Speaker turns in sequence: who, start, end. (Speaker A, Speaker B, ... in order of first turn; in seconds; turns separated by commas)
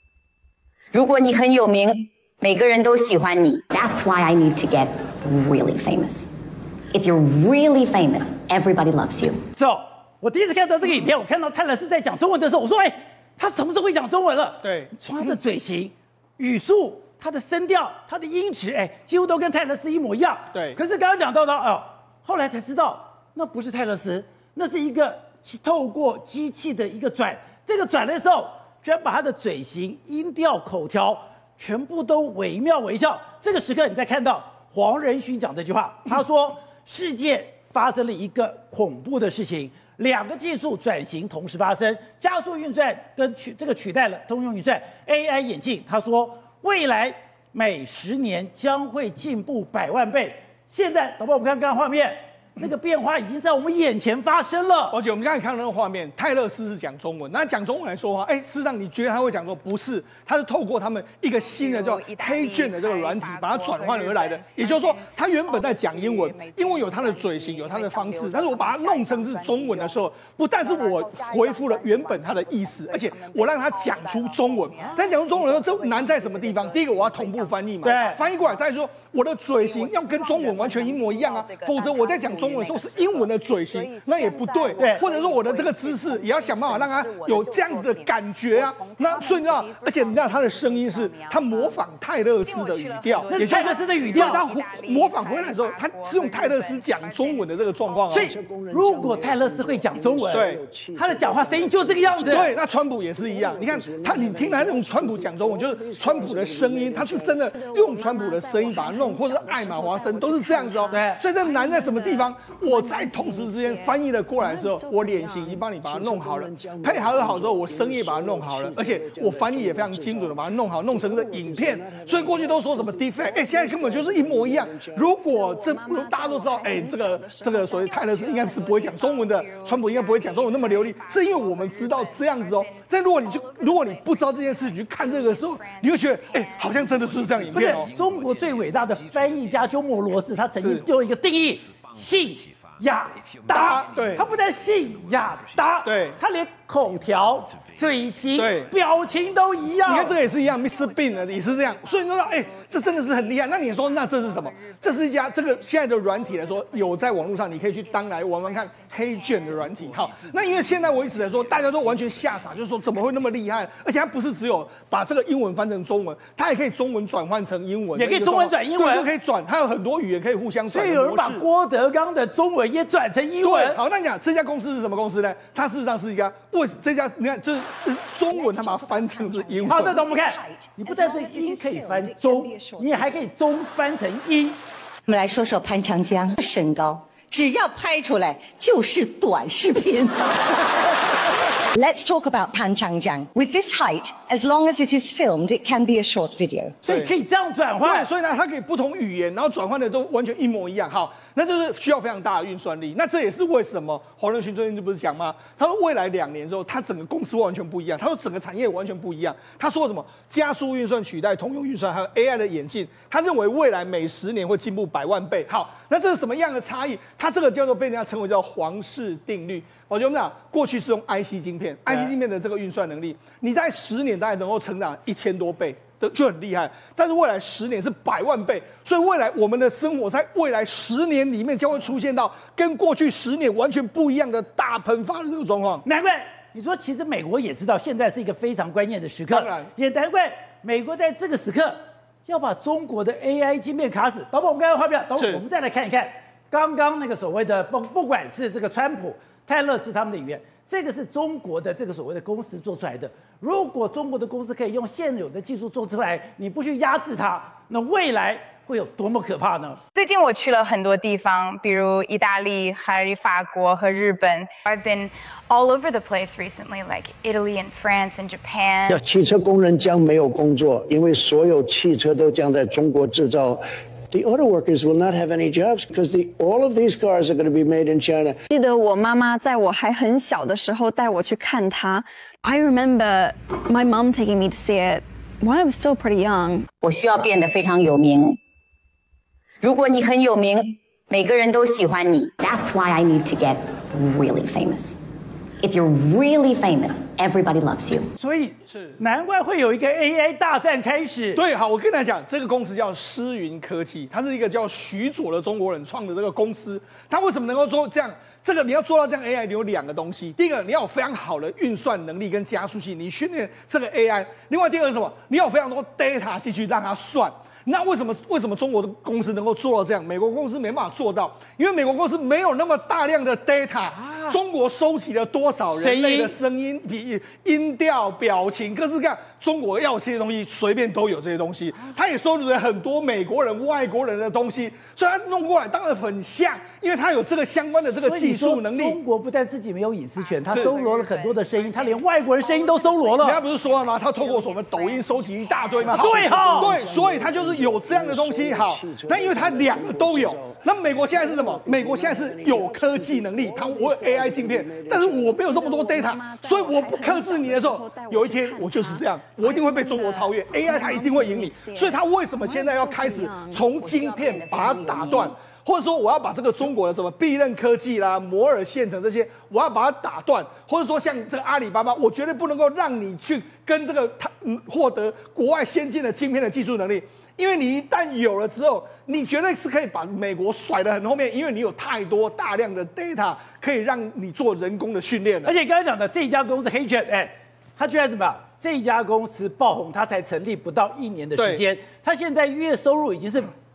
Speaker A: 0.9-6.3, Speaker A: 6.9-9.4, Speaker B: 9.5-55.0, Speaker C: 14.6-14.9, Speaker C: 20.5-20.8, Speaker C: 54.9-98.3, Speaker D: 61.4-70.0, Speaker D: 70.5-78.6, Speaker B: 77.8-78.2, Speaker D: 79.6-91.8, Speaker B: 84.8-85.0, Speaker D: 92.4-98.2, Speaker B: 93.3-94.4, Speaker B: 98.1-102.5, Speaker E: 98.1-102.6, Speaker C: 100.3-100.6, Speaker C: 102.2-137.9, Speaker E: 103.2-107.4, Speaker F: 107.5-115.6, Speaker D: 110.2-110.9, Speaker B: 110.9-111.2, Speaker E: 115.7-125.1, Speaker F: 125.3-127.4, Speaker D: 127.4-137.7, Speaker B: 137.5-150.2, Speaker C: 143.5-144.3, Speaker C: 145.8-146.2, Speaker C: 148.3-148.7, Speaker C: 149.8-171.4, Speaker D: 150.1-161.7, Speaker B: 167.9-169.1, Speaker B: 170.7-173.8, Speaker C: 173.4-180.0, Speaker G: 178.3-183.2, Speaker B: 179.6-184.6, Speaker G: 185.1-190.8, Speaker G: 191.7-196.7, Speaker C: 196.8-197.1, Speaker B: 196.8-198.1, Speaker C: 197.8-235.8, Speaker B: 235.8-259.8, Speaker C: 239.3-239.7, Speaker C: 245.2-245.4, Speaker D: 259.9-269.0, Speaker E: 268.9-278.4, Speaker F: 278.5-286.7, Speaker A: 286.8-288.4, Speaker A: 289.6-295.0, Speaker A: 295.6-298.1, Speaker B: 298.2-301.4, Speaker C: 298.6-299.0, Speaker C: 301.3-339.0, Speaker B: 325.8-326.4, Speaker B: 337.9-343.4, Speaker D: 340.2-346.6, Speaker C: 343.2-385.5, Speaker B: 345.9-346.7, Speaker E: 346.4-355.4, Speaker F: 355.4-363.6, Speaker A: 363.7-365.4, Speaker B: 385.4-393.5, Speaker C: 391.4-391.6